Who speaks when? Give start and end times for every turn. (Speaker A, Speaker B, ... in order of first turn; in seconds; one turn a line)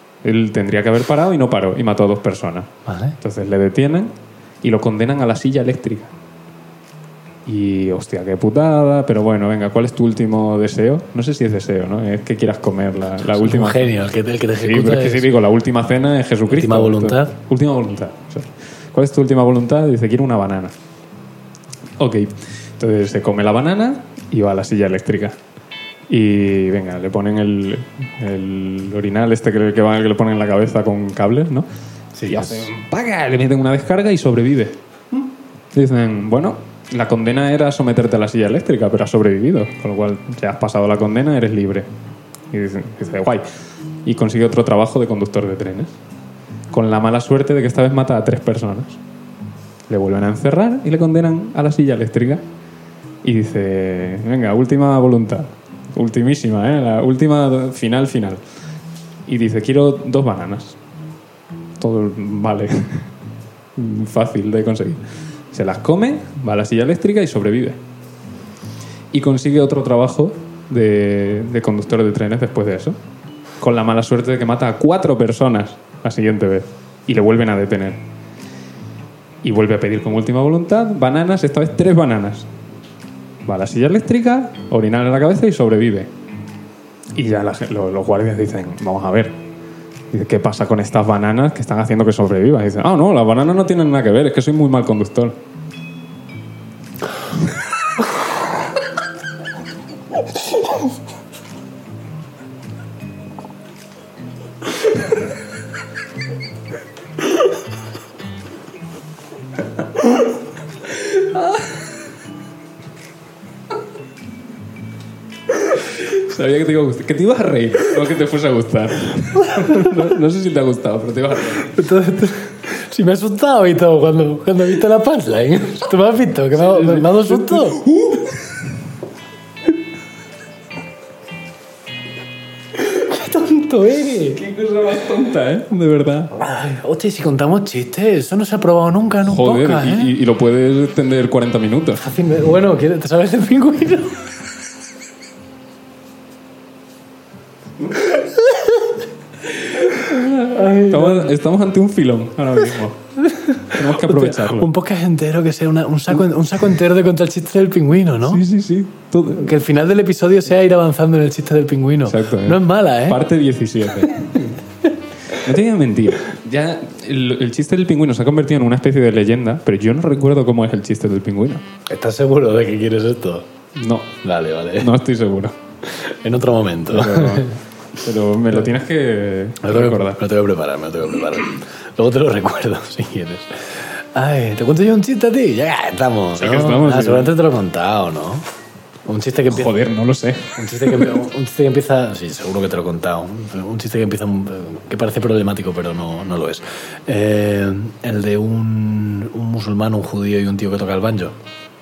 Speaker A: 0.2-6.1
Speaker B: 2.9-3.2
Speaker A: 7.5-13.9
Speaker B: 13.3-15.3
Speaker A: 14.6-20.8
Speaker B: 16.5-17.4
Speaker A: 22.0-25.4
Speaker A: 26.1-31.7
Speaker B: 32.1-32.7
Speaker A: 32.3-34.8
Speaker A: 35.7-41.9
Speaker A: 42.5-43.5
Speaker A: 44.0-46.0
Speaker A: 46.7-49.0
Speaker A: 49.9-52.4
Speaker A: 53.2-58.4
Speaker A: 59.3-60.8
Speaker A: 61.8-63.1
Speaker A: 63.8-67.8
Speaker A: 69.1-73.0
Speaker A: 73.6-78.0
Speaker A: 79.4-82.5
Speaker A: 83.5-86.1
Speaker A: 87.1-89.4
Speaker A: 90.1-95.4
Speaker A: 111.0-111.8
Speaker A: 115.7-121.8
Speaker B: 121.7-127.8
Speaker A: 126.6-128.5
Speaker B: 132.8-134.4
Speaker A: 134.3-136.3
Speaker B: 136.3-140.1
Speaker A: 139.2-142.0
Speaker B: 142.0-144.2
Speaker B: 150.0-151.3
Speaker A: 150.0-153.0
Speaker B: 153.2-158.4
Speaker A: 153.7-154.7
Speaker A: 158.2-159.6
Speaker B: 159.4-163.2
Speaker A: 162.1-164.6
Speaker A: 165.3-171.7
Speaker B: 171.9-173.5
Speaker A: 173.8-174.2
Speaker B: 174.2-174.9
Speaker A: 174.8-175.6
Speaker B: 175.8-177.5
Speaker A: 176.9-180.2
Speaker B: 179.6-188.5
Speaker A: 186.4-187.3
Speaker B: 189.1-189.7
Speaker A: 189.5-191.2
Speaker B: 190.6-201.3